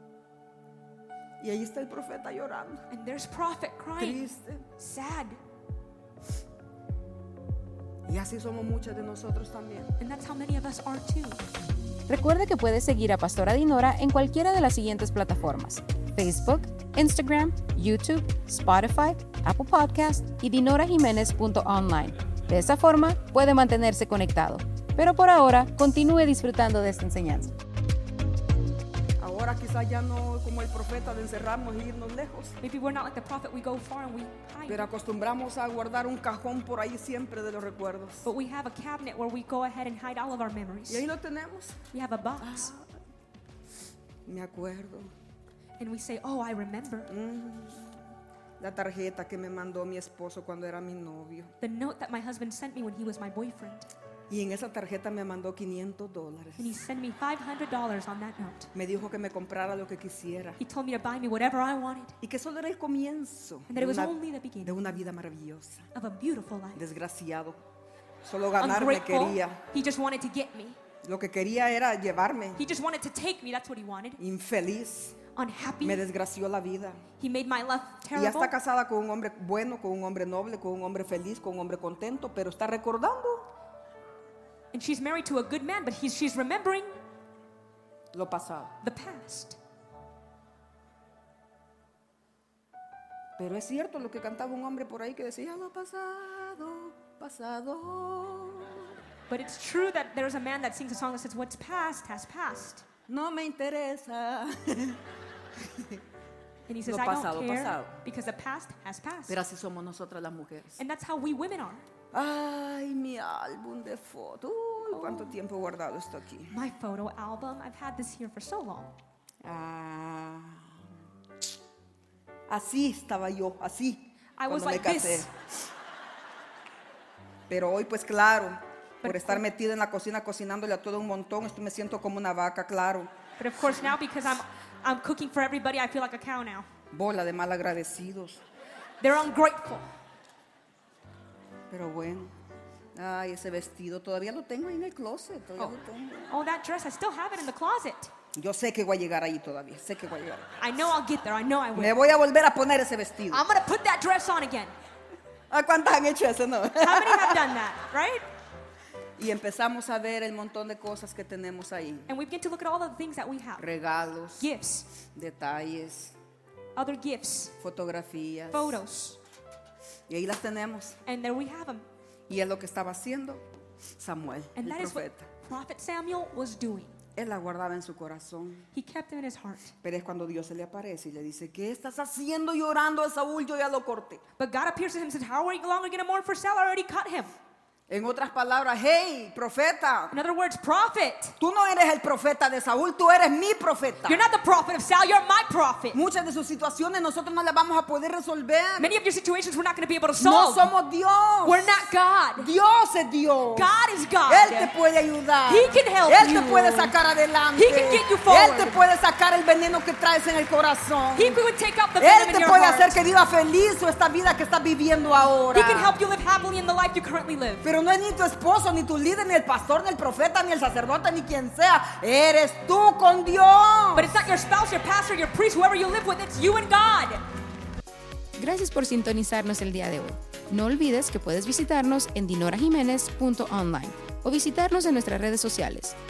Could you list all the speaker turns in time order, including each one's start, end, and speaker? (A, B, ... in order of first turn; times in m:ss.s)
0:01.4-0:02.8 A
0:02.9-0:04.2 B
0:04.0-0:04.6 A
0:04.8-0:05.4 B
0:08.1-0:09.9 A
0:10.0-0:11.4 B
0:12.1-0:27.5 C
0:29.2-0:32.5 A
0:32.6-0:34.9 B
0:34.7-0:38.3 A
0:38.2-0:41.1 B
0:40.9-0:41.8 A
0:41.9-0:42.7 B
0:42.4-0:42.9 A
0:44.2-0:45.1 A
0:45.8-0:47.1 B
0:47.1-0:51.5 A
0:51.6-0:53.9 B
0:54.3-0:56.7 A
0:56.6-0:58.7 B
0:58.7-1:00.6 A
1:00.6-1:02.2 B
1:02.2-1:05.9 A
1:03.7-1:04.8 B
1:05.9-1:06.8 B
1:06.7-1:07.6 A
1:08.2-1:09.6 A
1:08.6-1:10.8 B
1:11.0-1:12.6 A
1:12.6-1:14.2 B
1:14.2-1:15.1 A
1:15.3-1:16.0 B
1:15.8-1:17.0 A
1:17.2-1:18.5 B
1:18.1-1:23.4 A
1:24.7-1:27.0 B
1:28.1-1:28.7 A
1:28.8-1:29.6 B
1:33.4-1:38.9 A
1:39.3-1:42.8 B
1:43.1-1:45.0 A
1:46.7-1:49.4 B
1:46.8-1:48.0 A
1:49.3-1:50.8 A
1:50.8-1:51.8 B
1:52.1-1:56.5 A
1:54.9-1:55.3 B
1:56.5-1:59.0 B
1:59.4-2:00.8 A
2:02.5-2:05.3 A
2:04.4-2:05.3 B
2:07.5-2:13.1 A
2:09.0-2:09.4 B
2:13.4-2:16.7 B
2:16.9-2:18.4 A
2:19.0-2:19.9 B
2:21.7-2:22.3 A
2:22.9-2:26.3 A
2:26.3-2:28.1 B
2:28.3-2:30.4 A
2:30.6-2:32.0 B
2:31.7-2:33.4 A
2:33.3-2:34.7 B
2:35.5-2:37.5 A
2:36.8-2:38.2 B
2:39.2-2:42.1 A
2:42.1-2:43.6 B
2:43.6-2:44.5 A
2:44.4-2:44.9 B
2:45.1-2:46.1 A
2:46.7-2:47.5 B
2:47.6-2:48.8 A
2:48.5-2:49.2 B
2:50.1-2:51.0 A
2:51.0-2:51.8 B
2:52.3-2:53.4 A
2:54.0-2:55.3 A
2:54.6-2:56.9 B
2:57.2-2:58.6 A
2:58.7-2:59.7 B
2:59.8-3:04.2 A
3:04.4-3:07.3 B
3:07.9-3:10.2 A
3:10.1-3:11.3 B
3:11.4-3:14.2 A
3:14.0-3:16.0 B
3:15.9-3:18.9 A
3:18.8-3:20.7 B
3:20.2-3:21.8 A
3:21.4-3:22.5 B
3:22.4-3:23.7 A
3:23.5-3:24.7 B
3:24.3-3:31.4 A
3:25.4-3:26.9 B
3:27.5-3:28.8 B
3:31.1-3:33.0 B
3:32.0-3:36.0 A
3:35.5-3:37.6 B
3:37.6-3:44.1 A
3:43.9-3:47.2 B
3:48.4-3:56.0 C